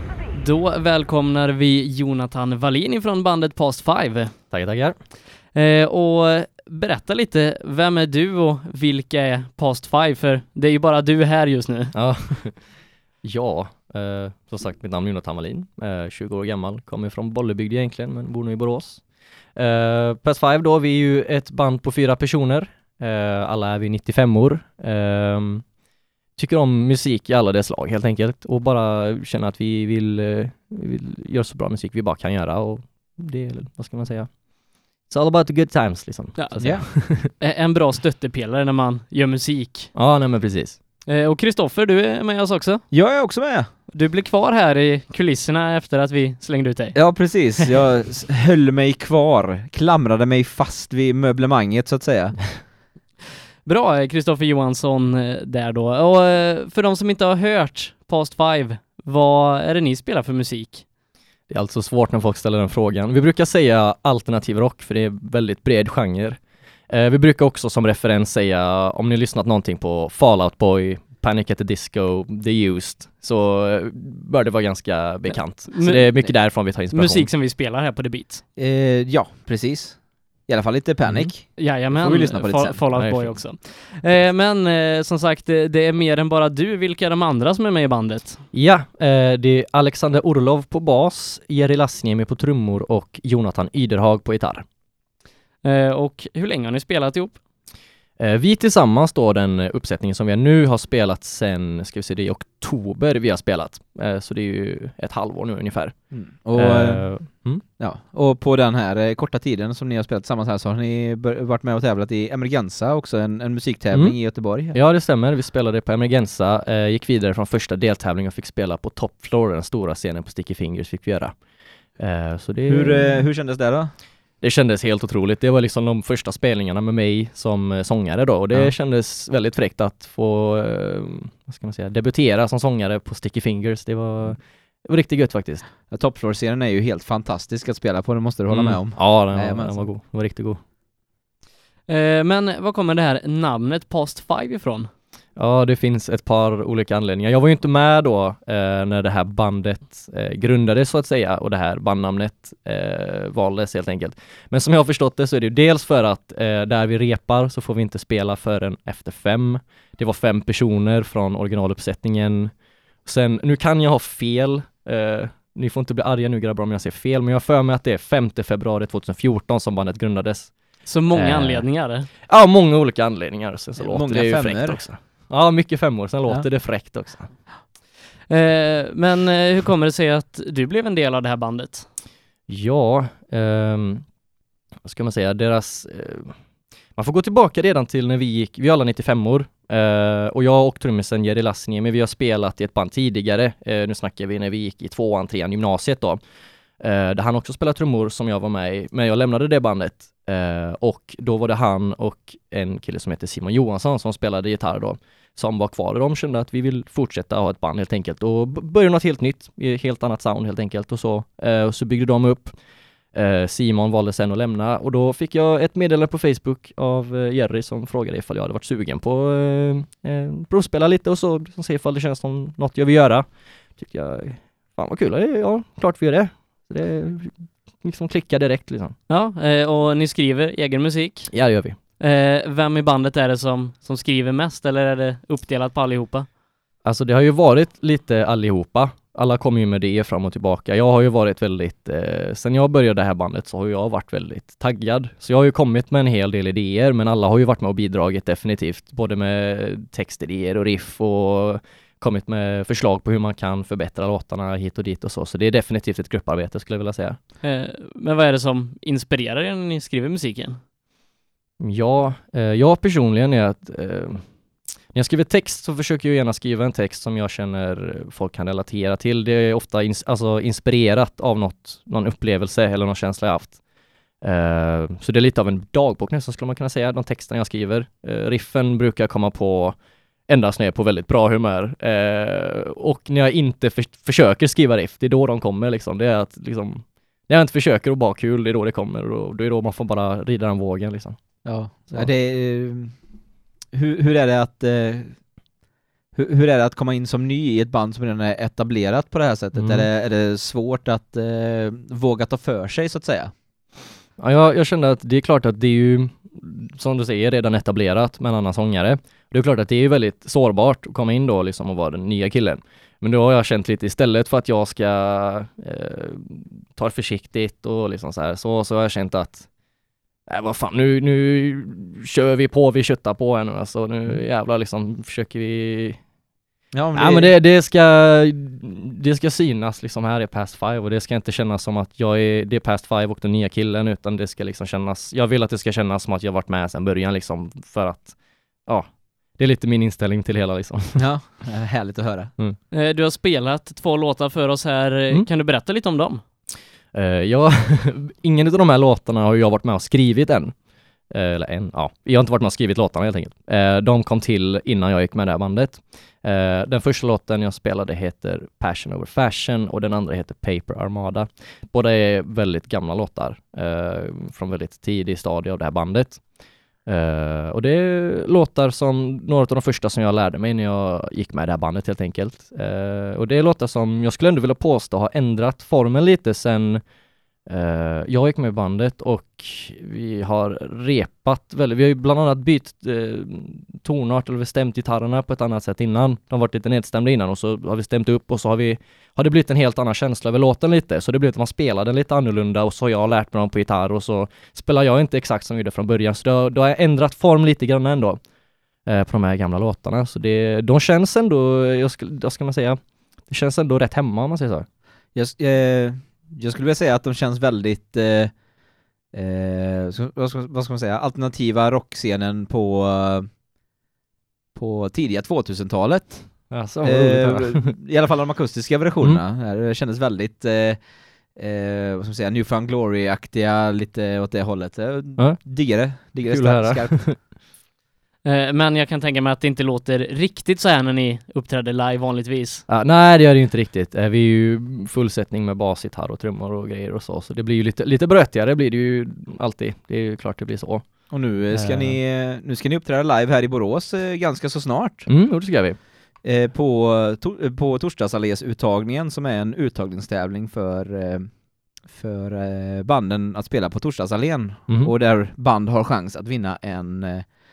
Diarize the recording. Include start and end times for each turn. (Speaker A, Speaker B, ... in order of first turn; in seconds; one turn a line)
Speaker A: 0.4-4.3
Speaker B: 4.5-5.0
Speaker A: 5.5-12.0
Speaker B: 11.9-25.6
Speaker B: 26.4-34.4
Speaker B: 35.0-37.3
Speaker A: 36.4-39.9
Speaker C: 36.6-36.9
Speaker B: 39.9-40.8
Speaker A: 41.0-42.8
Speaker C: 42.9-43.7
Speaker A: 43.9-47.5
Speaker C: 46.9-52.6
Speaker A: 53.6-60.8
Speaker B: 61.5-77.3
Speaker A: 75.3-78.4
Speaker C: 78.5-82.8
Speaker B: 81.0-81.3
Speaker A: 81.5-88.4
Speaker B: 82.9-83.4
Speaker B: 88.5-94.6
Speaker A: 95.6-97.4
Speaker B: 98.2-107.6
Speaker C: 106.1-114.8
Speaker B: 113.9-121.3
Speaker B: 122.0-123.3
Speaker C: 122.7-123.9
Speaker B: 124.4-135.7
Speaker C: 135.9-139.9
Speaker B: 138.5-140.6
Speaker A: 141.9-144.9
Speaker B: 145.3-162.5
Speaker B: 163.0-177.4
Speaker A: 170.8-172.1
Speaker C: 173.8-174.8
Speaker A: 178.3-181.9
Speaker B: 182.5-184.0
Speaker B: 184.8-186.3
Speaker B: 186.9-196.2
Speaker B: 196.8-212.5
Speaker B: 213.1-228.9
Speaker A: 229.1-231.4
Speaker B: 231.3-231.8
Speaker A: 232.0-236.3
Speaker B: 236.8-257.2
Speaker A: 257.4-260.6
Speaker B: 261.6-264.2
Speaker B: 264.9-273.6
Speaker B: 274.2-291.2
Speaker C: 291.4-292.9
Speaker B: 291.8-292.1
Speaker C: 293.7-295.2
Speaker C: 296.1-303.3
Speaker B: 299.5-299.9
Speaker B: 304.2-319.5
Speaker B: 320.3-326.0
Speaker C: 326.7-327.3
Speaker B: 326.9-341.1
Speaker C: 341.0-342.3
Speaker A: 342.7-346.2
Speaker B: 346.9-350.5
Speaker B: 351.1-366.2
Speaker B: 366.8-376.8
Speaker B: 377.5-398.2
Speaker B: 398.9-404.6
Speaker C: 405.1-408.3
Speaker C: 409.1-413.3
Speaker C: 414.6-420.8
Speaker B: 416.5-417.7
Speaker C: 421.3-427.0
Speaker B: 426.2-427.2
Speaker A: 428.2-432.6
Speaker B: 432.7-442.0
Speaker C: 441.1-445.1
Speaker B: 445.1-445.8
Speaker C: 446.2-451.3
Speaker C: 451.9-457.3
Speaker B: 454.7-454.9